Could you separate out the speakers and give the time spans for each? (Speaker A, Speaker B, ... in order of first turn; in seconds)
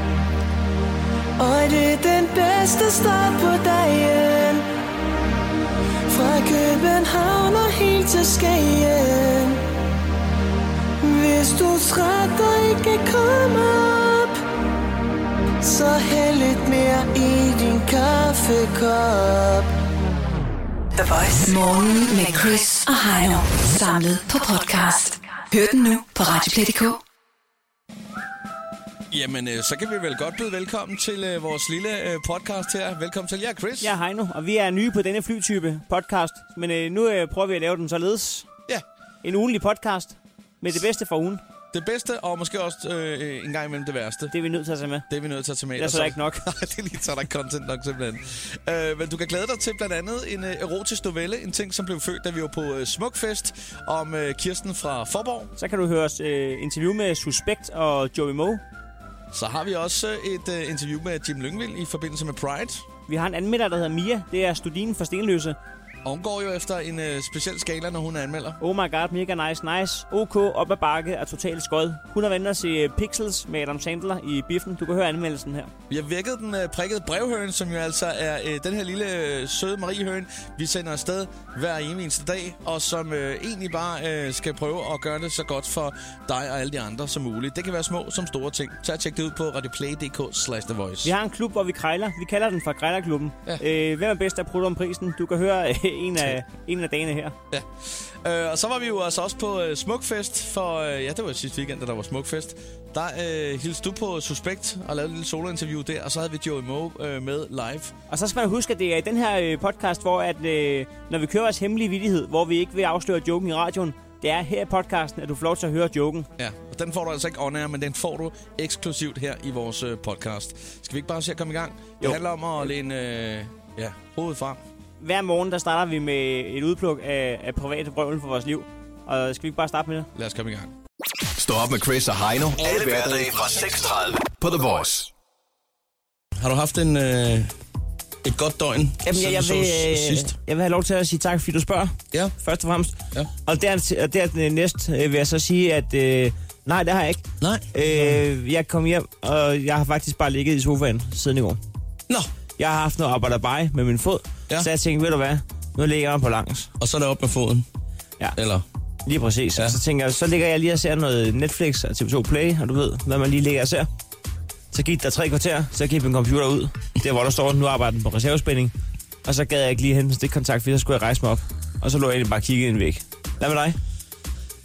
Speaker A: 1.4-4.7, 6.1-9.6, 11.0-14.4, 15.6-19.7
Speaker B: 20.9-27.0
Speaker C: 29.1-33.9, 41.7-44.3, 45.1-55.5, 59.3-62.9, 66.0-68.6, 75.9-91.1, 97.5-107.9, 116.4-124.6, 130.2-130.7, 132.6-133.6, 136.4-137.5, 138.2-140.3, 147.4-148.1, 156.8-157.7, 158.3-158.6
Speaker D: 33.8-38.5, 39.2-41.4, 44.3-45.0, 45.8-46.4, 55.6-58.6, 63.1-65.6, 68.6-75.7, 91.0-97.3, 108.1-116.3, 125.0-130.1, 139.1-142.9, 143.4-151.6, 152.6-156.7, 159.1-163.9, 164.7-168.7, 169.2-173.8
Speaker E: 131.3-135.1